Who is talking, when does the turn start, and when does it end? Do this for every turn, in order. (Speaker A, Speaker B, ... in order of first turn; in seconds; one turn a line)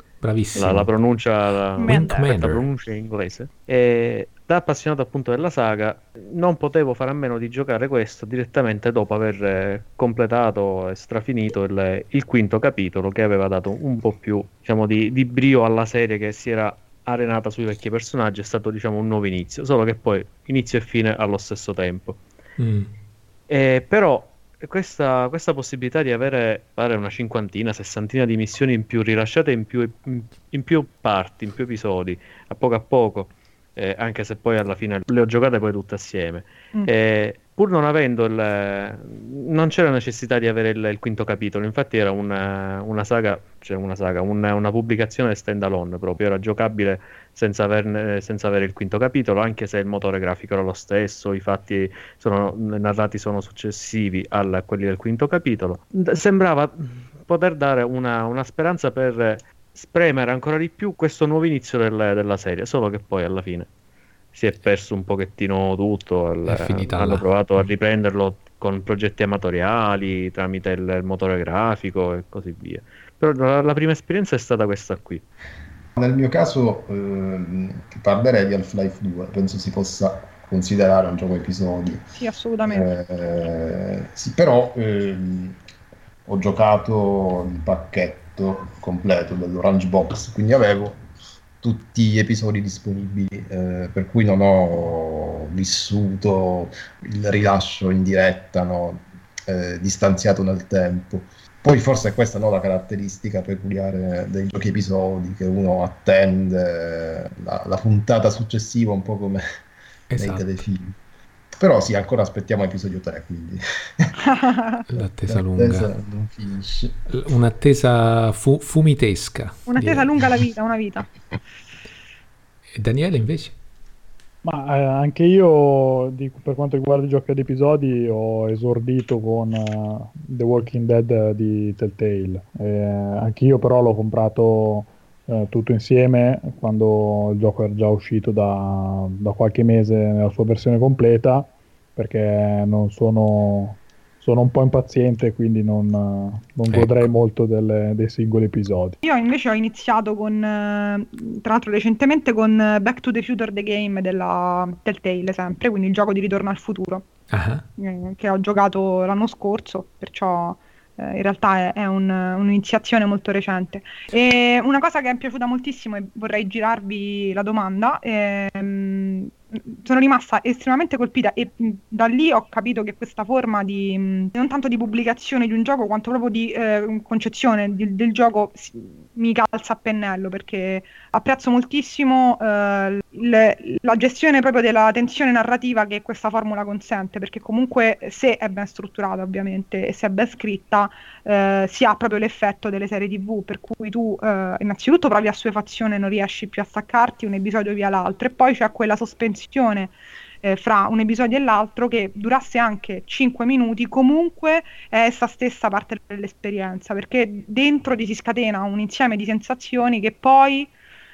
Speaker A: 0.2-0.9
Speaker B: 0.6-22.2
Speaker C: 1.8-2.3
Speaker A: 1.8-2.6
Speaker A: 22.6-22.9
Speaker B: 23.5-63.7
Speaker B: 64.3-75.2
Speaker A: 66.5-67.3
Speaker D: 76.0-82.0
Speaker C: 82.2-82.9
Speaker D: 82.6-85.6
Speaker D: 86.3-91.1
Speaker D: 91.6-109.4
Speaker A: 110.1-110.5
Speaker D: 110.2-111.0
Speaker D: 111.6-114.1
Speaker C: 114.2-114.8
Speaker A: 114.9-115.9
Speaker D: 115.0-117.0
Speaker A: 117.1-120.4
Speaker C: 119.7-121.1
Speaker A: 122.8-123.5
Speaker E: 124.4-149.0
Speaker A: 146.7-147.1
Speaker C: 149.0-157.1
Speaker A: 157.3-157.7
Speaker C: 157.8-210.7